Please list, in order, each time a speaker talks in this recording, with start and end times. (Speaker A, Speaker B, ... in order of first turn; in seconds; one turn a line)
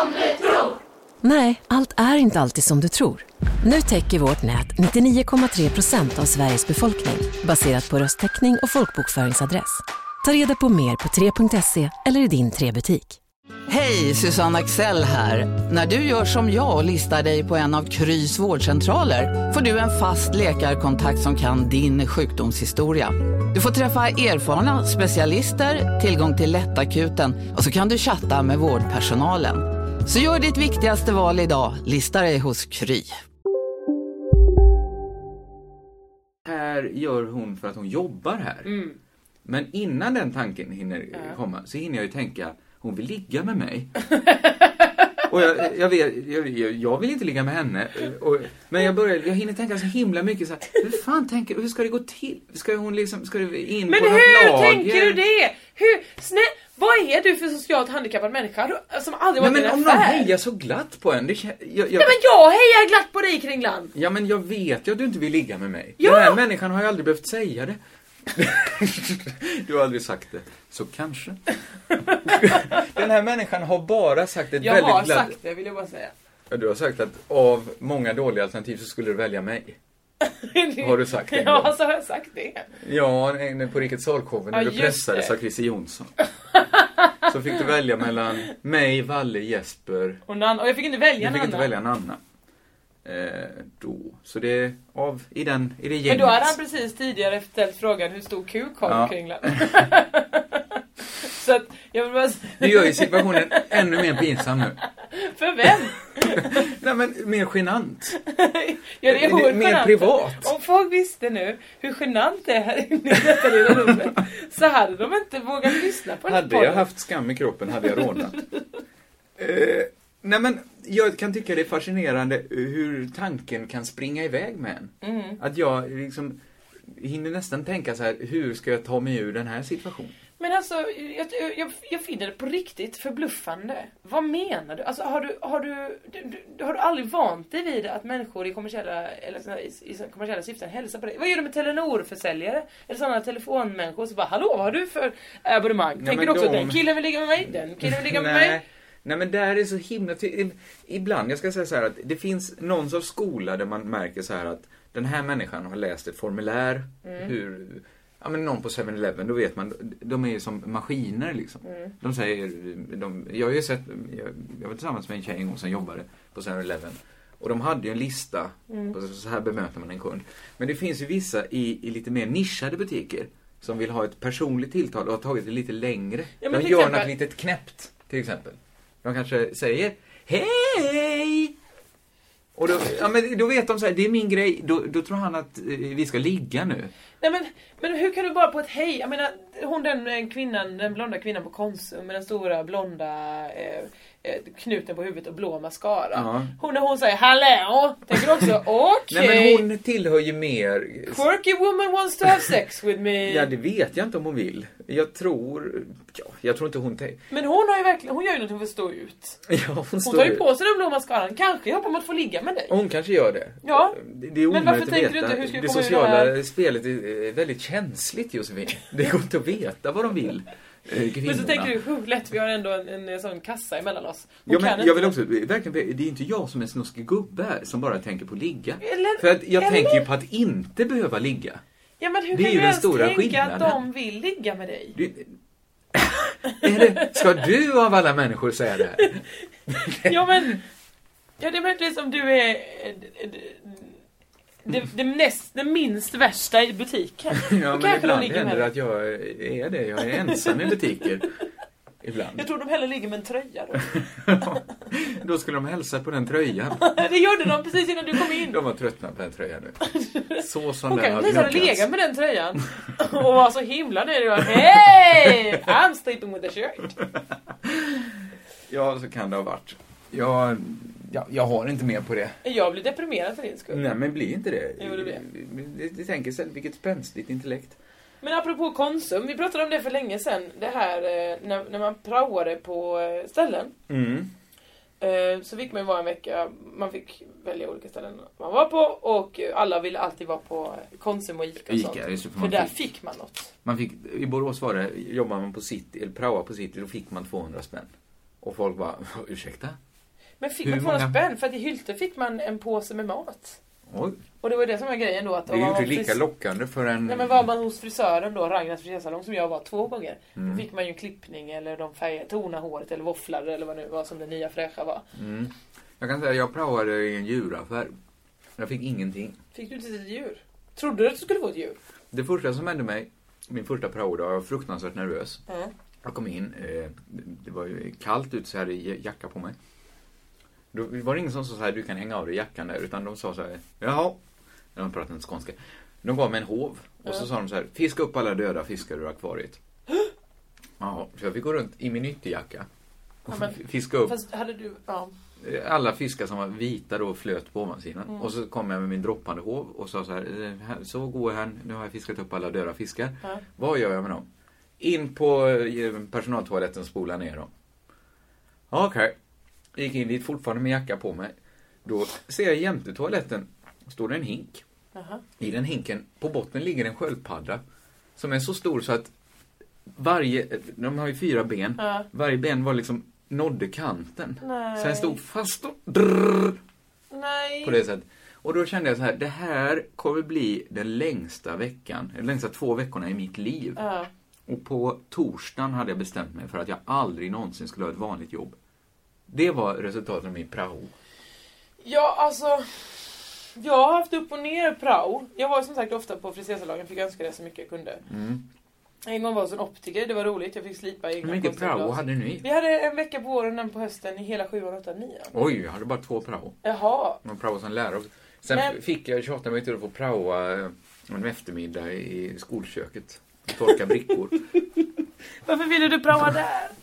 Speaker A: 1.2-13.2
Speaker B: 13.7-33.2
Speaker C: 36.5-38.8
Speaker D: 38.7-39.0
Speaker C: 39.5-43.9
Speaker D: 44.3-44.7
Speaker C: 45.3-55.2
Speaker D: 53.9-60.3
Speaker C: 59.4-62.1
Speaker D: 62.0-63.9
Speaker C: 64.0-67.8
Speaker D: 66.0-66.4
Speaker C: 68.3-71.4
Speaker D: 72.1-72.9
Speaker C: 72.2-75.4
Speaker D: 74.6-76.1
Speaker C: 76.5-79.8
Speaker D: 80.2-82.7
Speaker C: 80.8-81.7
Speaker C: 82.8-86.1
Speaker D: 84.5-85.3
Speaker D: 86.5-87.3
Speaker C: 87.2-90.2
Speaker D: 90.3-91.7
Speaker C: 91.2-92.2
Speaker C: 93.0-96.6
Speaker D: 96.1-104.2
Speaker C: 98.8-99.8
Speaker C: 102.6-104.8
Speaker D: 105.0-106.6
Speaker C: 106.2-108.2
Speaker D: 108.1-116.9
Speaker C: 109.1-110.5
Speaker C: 113.7-114.0
Speaker C: 116.2-118.4
Speaker C: 119.4-130.2
Speaker D: 125.0-125.4
Speaker D: 130.4-148.6
Speaker C: 146.0-146.8
Speaker C: 147.8-181.6
Speaker D: 157.1-157.3
Speaker D: 161.7-161.9
Speaker D: 168.7-168.9
Speaker D: 176.4-177.1
Speaker C: 182.6-186.9
Speaker D: 187.2-199.7
Speaker C: 196.1-196.5
Speaker C: 198.2-198.5
Speaker C: 199.1-201.2
Speaker D: 201.1-203.5
Speaker C: 203.2-207.2
Speaker D: 207.3-209.4
Speaker C: 209.5-210.4
Speaker D: 210.0-212.7
Speaker C: 212.7-221.7
Speaker D: 213.6-214.0
Speaker D: 214.5-216.3
Speaker D: 221.2-225.2
Speaker C: 224.5-231.6
Speaker D: 228.8-230.1
Speaker D: 232.0-235.0
Speaker C: 232.3-233.8
Speaker C: 234.9-235.3
Speaker C: 235.9-240.6
Speaker D: 236.6-237.2
Speaker D: 239.9-240.6
Speaker D: 241.4-243.9
Speaker D: 244.7-248.7
Speaker C: 247.3-251.3
Speaker D: 250.3-250.8
Speaker C: 252.0-252.4
Speaker D: 252.3-253.9
Speaker C: 254.0-256.8
Speaker D: 256.8-258.6
Speaker C: 258.2-259.8
Speaker D: 259.9-266.9
Speaker C: 260.4-261.9
Speaker C: 267.6-272.4
Speaker D: 272.4-273.9
Speaker C: 273.7-277.8
Speaker D: 274.8-275.2
Speaker D: 278.2-283.7
Speaker C: 283.9-284.3
Speaker D: 285.0-293.5
Speaker C: 291.7-292.8
Speaker C: 293.6-297.9
Speaker C: 298.4-299.8
Speaker D: 300.4-303.6
Speaker C: 300.6-301.2
Speaker C: 303.9-304.2
Speaker D: 304.4-306.2
Speaker C: 305.5-307.4
Speaker D: 307.1-315.1
Speaker C: 310.4-310.6
Speaker C: 315.1-317.9
Speaker C: 318.6-319.4
Speaker D: 319.5-321.8
Speaker C: 322.1-325.4
Speaker C: 326.0-329.6
Speaker C: 330.7-334.2
Speaker C: 334.8-339.6
Speaker C: 340.8-342.7
Speaker C: 343.3-344.2
Speaker D: 343.3-345.1
Speaker C: 345.4-354.3
Speaker C: 354.8-357.5
Speaker C: 358.7-359.2
Speaker C: 359.8-361.3
Speaker C: 361.9-364.6
Speaker D: 364.9-365.2
Speaker C: 365.4-367.6
Speaker C: 368.2-369.1
Speaker C: 369.9-376.6
Speaker D: 371.8-372.1
Speaker D: 374.4-375.2
Speaker D: 377.1-377.8
Speaker C: 377.6-383.8
Speaker D: 383.8-384.1
Speaker C: 384.5-388.6
Speaker C: 389.3-390.9
Speaker D: 391.8-398.0
Speaker C: 398.1-398.4
Speaker D: 399.1-405.4
Speaker C: 401.2-402.4
Speaker C: 405.3-406.6
Speaker D: 406.6-407.2
Speaker C: 407.2-414.4
Speaker D: 408.5-408.8
Speaker D: 415.5-416.7